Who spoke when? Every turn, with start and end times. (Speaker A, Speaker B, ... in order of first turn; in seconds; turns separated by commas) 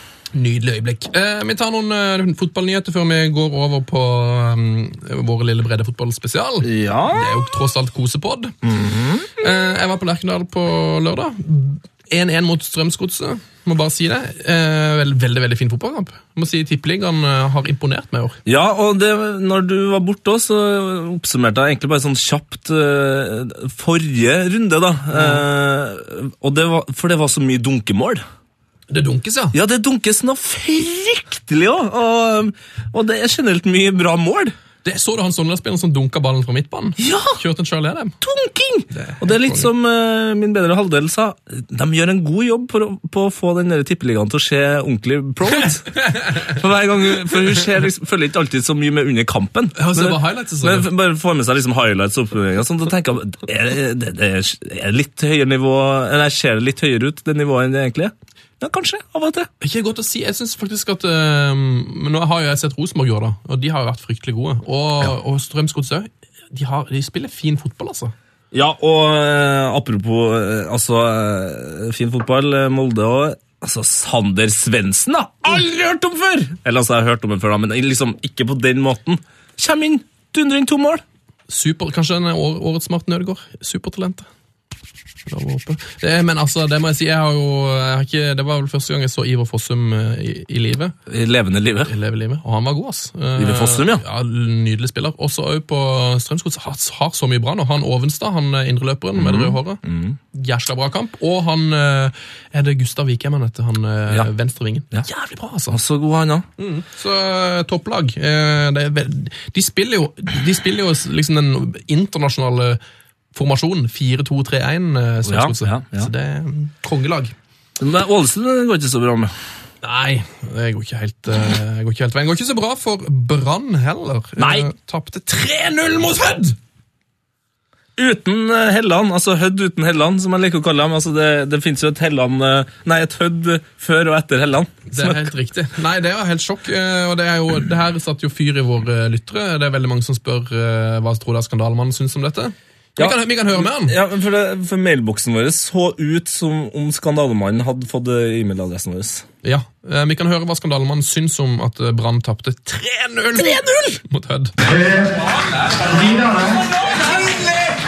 Speaker A: 0.3-8.5, Speaker B: 6.6-7.4, Speaker B: 8.6-9.3, Speaker A: 9.4-18.4, Speaker B: 18.4-28.2, Speaker A: 25.1-25.4, Speaker A: 28.9-29.6, Speaker B: 29.5-34.5, Speaker A: 34.8-38.2, Speaker B: 37.0-37.4, Speaker B: 38.2-59.5, Speaker A: 38.9-39.7, Speaker A: 49.8-50.9, Speaker A: 59.6-68.1, Speaker B: 68.5-81.0, Speaker A: 81.5-84.2, Speaker A: 85.3-90.9, Speaker B: 91.1-91.9, Speaker A: 91.8-99.8, Speaker B: 93.4-94.0, Speaker B: 99.2-100.2, Speaker A: 100.3-105.8, Speaker B: 105.7-106.5, Speaker A: 106.6-112.8, Speaker A: 113.3-117.3, Speaker B: 115.2-116.1, Speaker B: 117.8-119.3, Speaker A: 119.8-126.5, Speaker B: 124.4-124.7, Speaker B: 128.0-135.3, Speaker A: 134.9-144.0, Speaker B: 143.0-149.2, Speaker A: 149.4-154.5, Speaker B: 153.3-154.0